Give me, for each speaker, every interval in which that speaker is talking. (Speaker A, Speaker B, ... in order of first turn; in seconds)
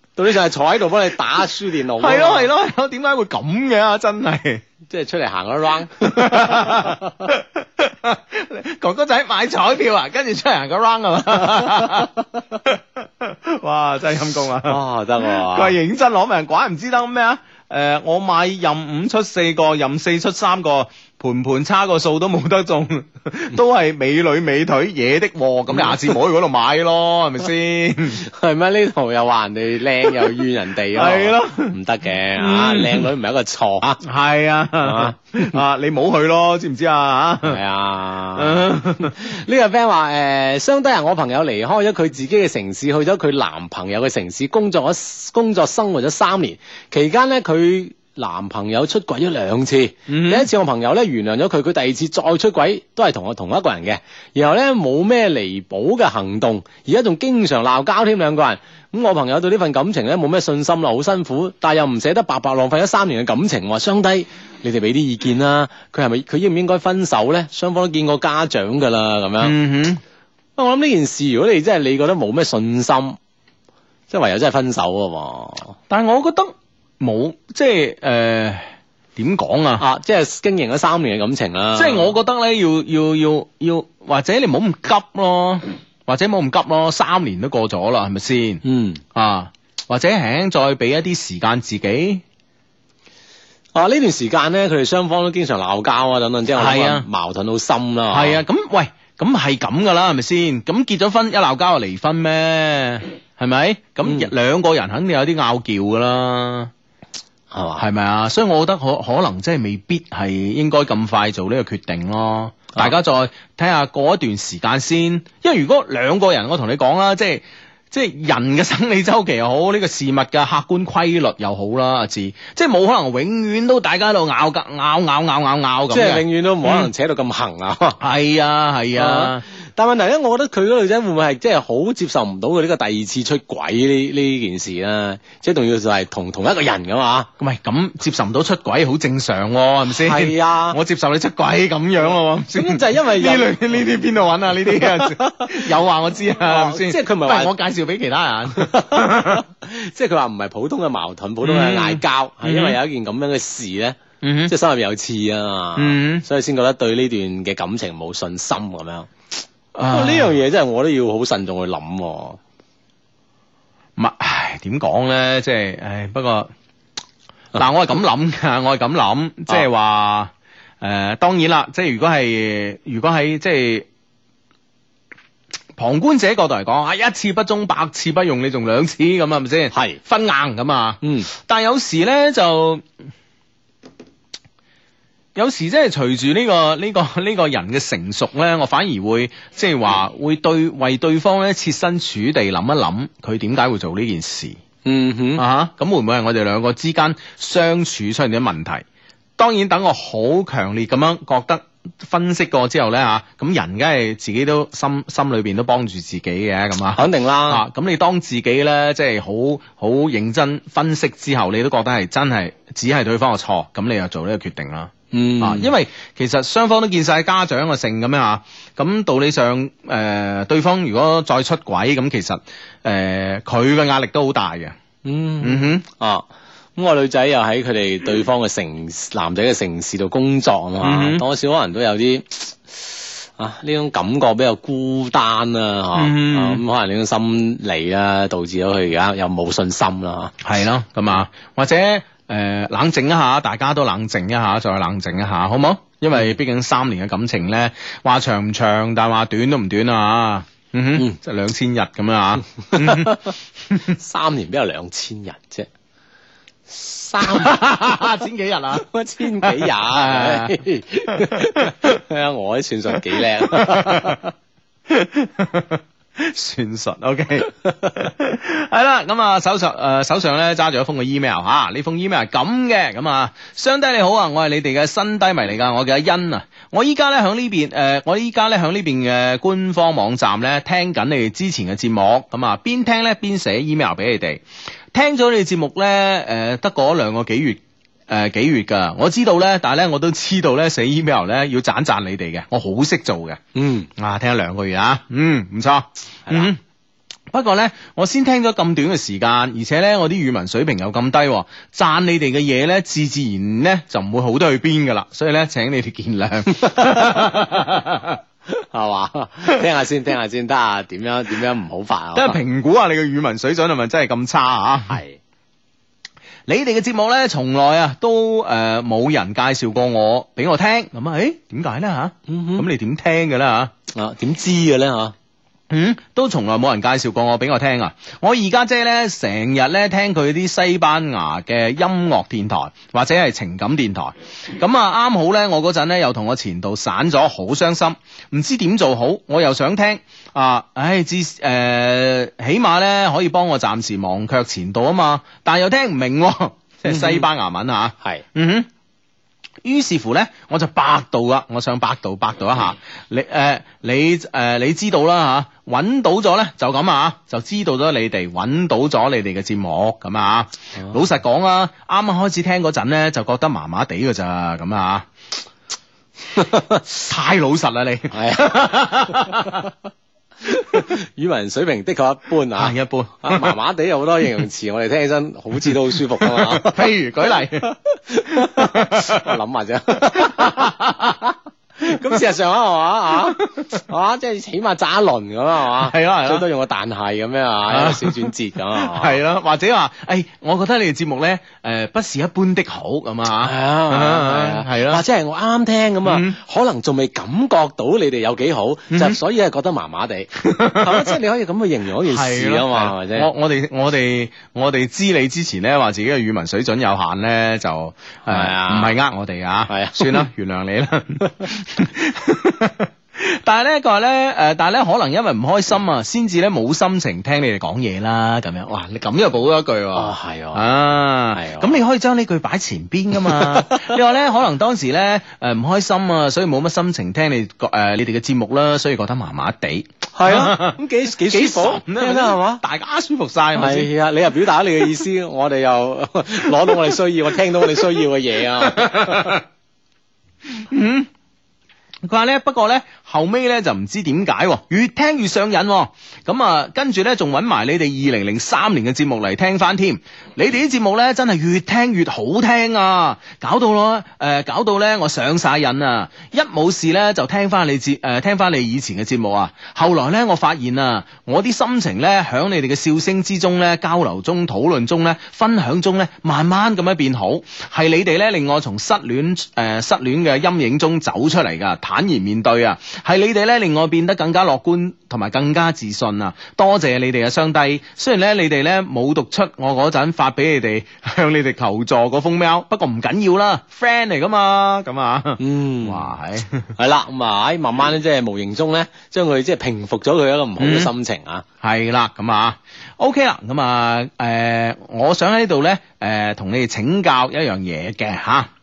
Speaker A: 0.1-2.5, 4.9-7.1, 14.6-15.8, 25.7-26.0, 28.1-34.0, 34.8-35.5, 37.4-69.5, 70.6-73.2, 74.1-75.8, 79.8-82.1, 88.6-89.0, 93.7-98.4, 107.5-107.8, 125.9-128.0, 128.9-137.3, 139.9-140.8, 142.5-143.6, 144.7-145.7, 146.3-147.5, 148.5-159.1, 159.9-162.4, 179.7-180.0, 181.0-181.3, 194.8-195.4, 206.9-207.6, 215.1-215.7, 225.0-240.4, 252.7-255.7, 256.7-257.7, 258.7-264.3, 293.5-293.9, 306.6-307.3, 308.5-312.4, 314.9-315.2, 322.3-322.6, 323.9-325.1, 346.9-347.3, 366.3-366.8, 368.1-369.6, 370.4-376.9, 377.6-389.2, 393.4-403.3, 408.2-408.9, 409.7-410.2, 419.9-420.7, 421.3-421.8, 423.2-423.9, 430.1-432.6, 433.5-439.4, 485.4-486.1, 486.8-491.4
Speaker B: 2.0-4.6, 6.0-12.1, 12.6-28.2, 30.9-31.7, 32.4-33.1, 34.0-37.6, 38.4-39.2, 50.1-50.5, 69.4-70.0, 75.9-79.8, 81.7-88.6, 89.1-92.2, 96.6-97.0, 98.1-106.7, 107.8-126.9, 128.0-129.4, 137.4-149.4, 151.4-152.8, 154.2-154.5, 155.8-156.2, 159.7-160.3, 164.0-166.5, 167.5-173.8, 175.8-182.8, 185.3-194.6, 195.4-198.8, 199.4-224.8, 225.4-225.8, 230.8-231.2, 235.9-236.6, 240.4-253.2, 257.2-260.6, 261.1-261.9, 263.1-264.2, 264.9-284.4, 284.9-293.4, 293.9-296.6, 297.3-308.2, 312.1-315.0, 316.5-323.7, 325.7-348.7, 349.6-365.1, 367.1-369.7, 372.6-373.6, 375.6-377.7, 378.3-379.3, 380.1-381.1, 385.8-386.4, 387.7-395.0, 396.0-396.4, 398.9-399.2, 400.4-401.1, 402.0-433.9, 438.7-439.4, 440.5-441.1, 442.0-486.7, 490.6-490.9, 491.6-498.5